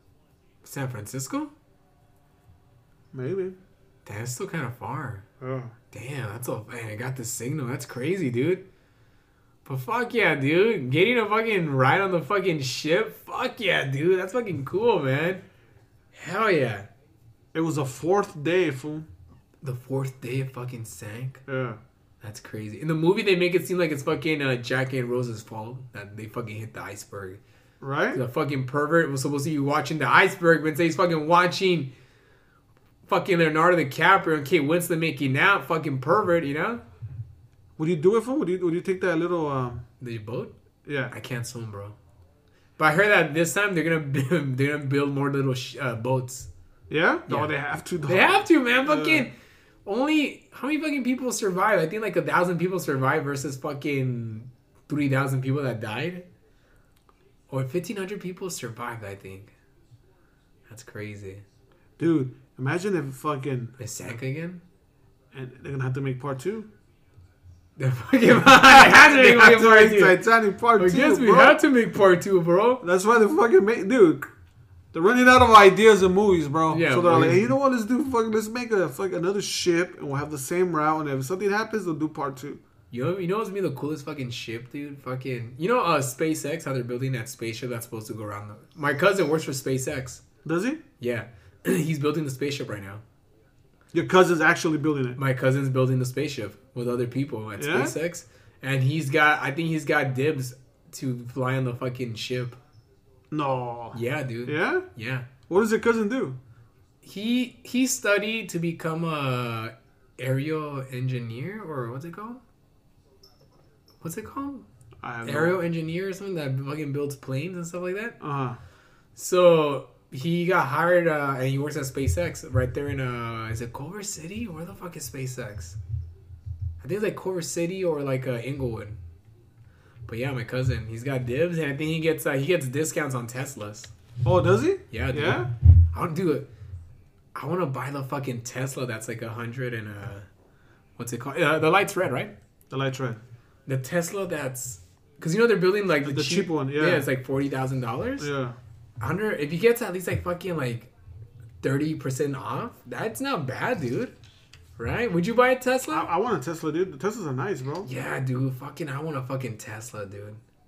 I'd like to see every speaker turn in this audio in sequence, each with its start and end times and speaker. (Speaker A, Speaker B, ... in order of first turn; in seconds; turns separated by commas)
Speaker A: 0.6-1.5, Speaker B: 3.1-3.6, Speaker A: 4.0-5.2, Speaker B: 5.4-5.7, Speaker A: 5.9-8.6, Speaker A: 9.6-15.4, Speaker A: 16.1-16.9, Speaker B: 17.5-19.1, Speaker A: 19.6-21.4, Speaker B: 21.5-21.8, Speaker A: 22.2-27.4, Speaker B: 27.8-28.2, Speaker A: 28.1-31.9, Speaker A: 33.1-36.8, Speaker B: 37.8-39.8, Speaker A: 40.0-40.5, Speaker B: 40.8-41.1, Speaker A: 41.1-42.0, Speaker A: 42.8-46.5, Speaker B: 46.9-49.3, Speaker A: 48.0-49.3, Speaker A: 49.8-56.3, Speaker A: 57.5-59.5, Speaker A: 60.7-61.4, Speaker B: 62.0-63.7, Speaker A: 63.8-64.6, Speaker B: 65.3-66.7, Speaker A: 67.8-70.2, Speaker B: 68.5-71.6, Speaker A: 70.8-72.8, Speaker B: 72.8-74.3, Speaker B: 74.9-82.6, Speaker A: 76.7-77.4, Speaker A: 82.9-90.2, Speaker B: 90.4-90.8, Speaker A: 91.0-93.0, Speaker B: 93.9-95.2, Speaker A: 95.2-102.6, Speaker B: 97.6-97.9, Speaker B: 103.3-104.8, Speaker A: 103.9-105.2, Speaker B: 105.5-106.4, Speaker A: 107.0-112.4, Speaker A: 114.0-114.7, Speaker B: 115.0-115.5, Speaker A: 115.2-118.2, Speaker B: 118.2-118.6, Speaker A: 119.2-125.8, Speaker A: 126.8-129.0, Speaker A: 130.1-133.9, Speaker B: 134.2-135.5, Speaker A: 134.9-136.5, Speaker A: 137.3-140.2, Speaker A: 141.0-142.3, Speaker B: 142.7-143.2, Speaker A: 143.7-148.3, Speaker B: 146.0-147.1, Speaker B: 148.2-148.6, Speaker A: 149.0-150.9, Speaker A: 151.6-154.1, Speaker A: 154.8-156.1, Speaker B: 155.9-157.9, Speaker A: 157.8-160.4